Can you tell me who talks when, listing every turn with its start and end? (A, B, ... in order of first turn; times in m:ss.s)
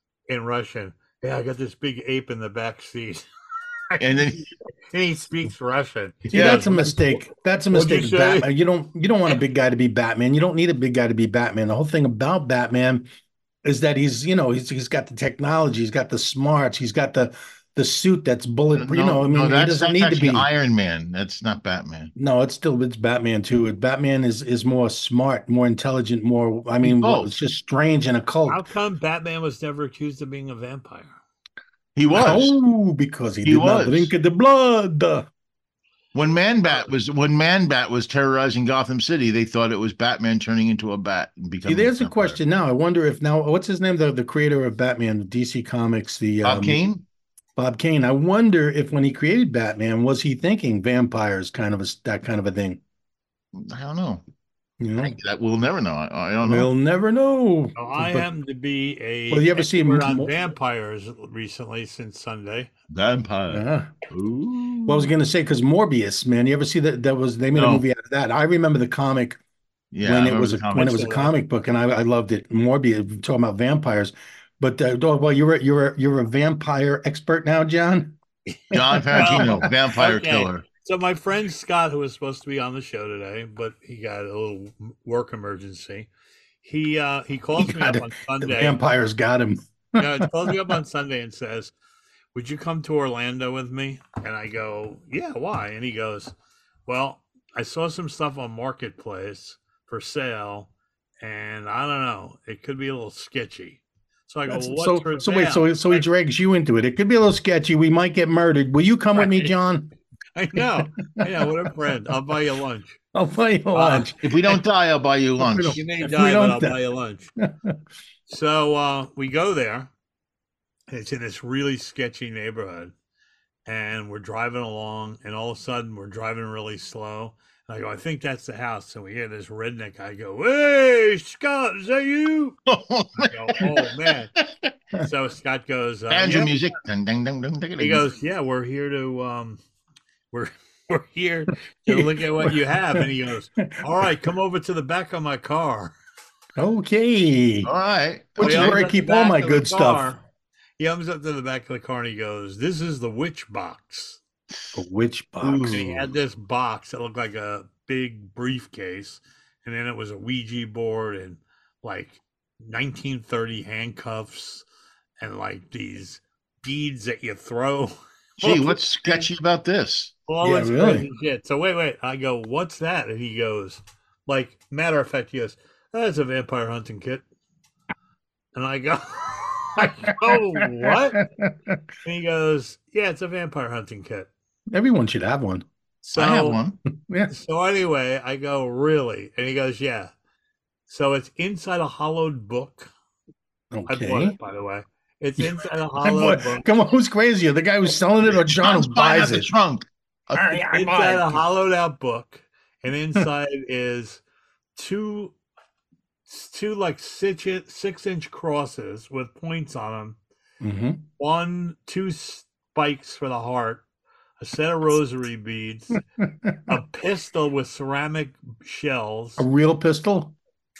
0:00.3-0:03.2 A
0:04.0-0:04.5 B
0:04.9-0:08.5 A
0:06.3-0:13.1 C
0:13.6-0:20.5 C
0:18.7-0:22.1 B
0:22.2-0:28.6 C
0:26.8-0:27.4 B
0:28.5-0:31.1 A
0:32.0-0:32.6 B
0:32.1-0:35.3 C
0:33.4-0:34.1 B
0:36.1-0:42.4 B
0:41.6-0:46.8 C
0:46.4-0:47.0 B
0:47.6-0:52.8 C
0:53.5-0:54.2 B
0:54.8-0:55.2 C
0:55.0-0:56.7 B
0:56.4-0:58.3 C
0:57.8-1:02.7 A
0:59.3-1:00.3 C
1:02.9-1:05.1 B
1:03.5-1:03.9 C
1:04.9-1:09.4 C
1:07.5-1:07.8 B
1:09.9-1:11.3 B
1:10.0-1:18.2 C
1:18.7-1:20.6 B
1:19.1-1:26.1 A
1:19.1-1:19.7 C
1:26.6-1:28.8 A
1:27.6-1:30.8 C
1:30.0-1:31.7 A
1:32.3-1:36.3 A
1:36.9-1:40.7 A
1:41.2-1:46.0 A
1:44.5-1:49.9 C
1:49.2-1:49.5 A
1:50.4-1:53.0 A
1:50.5-1:51.7 C
1:53.1-1:54.2 C
1:53.7-1:54.1 A
1:54.2-1:55.8 B
1:55.4-1:56.8 C
1:55.7-1:57.3 A
1:57.4-1:57.8 C
1:58.3-1:59.9 A
2:00.9-2:02.9 A
2:03.6-2:12.6 A
2:12.7-2:13.7 B
2:13.2-2:14.3 A
2:15.0-2:16.6 A
2:16.1-2:18.0 B
2:17.8-2:19.6 A
2:20.3-2:25.9 A
2:21.8-2:23.0 C
2:26.6-2:27.7 C
2:27.6-2:28.8 B
2:28.4-2:30.1 C
2:28.4-2:30.2 A
2:30.8-2:34.2 A
2:34.7-2:35.9 C
2:35.4-2:36.1 B
2:35.7-2:44.6 A
2:45.2-2:49.2 A
2:48.4-2:50.1 B
2:50.3-2:57.2 A
2:50.4-2:51.0 C
2:58.5-3:01.3 A
2:59.8-3:01.8 C
3:02.0-3:04.3 A
3:04.7-3:05.6 C
3:06.0-3:06.6 A
3:06.1-3:06.8 B
3:07.0-3:07.3 C
3:07.3-3:10.1 A
3:10.9-3:12.9 A
3:13.7-3:14.4 C
3:13.9-3:16.7 A
3:15.4-3:19.5 C
3:18.3-3:20.6 B
3:20.3-3:21.4 C
3:20.7-3:24.2 A
3:24.8-3:25.3 A
3:26.3-3:30.2 A
3:30.6-3:31.0 C
3:31.2-3:33.8 A
3:34.4-3:36.0 A
3:36.2-3:36.7 C
3:36.7-3:39.4 A
3:39.4-3:40.3 C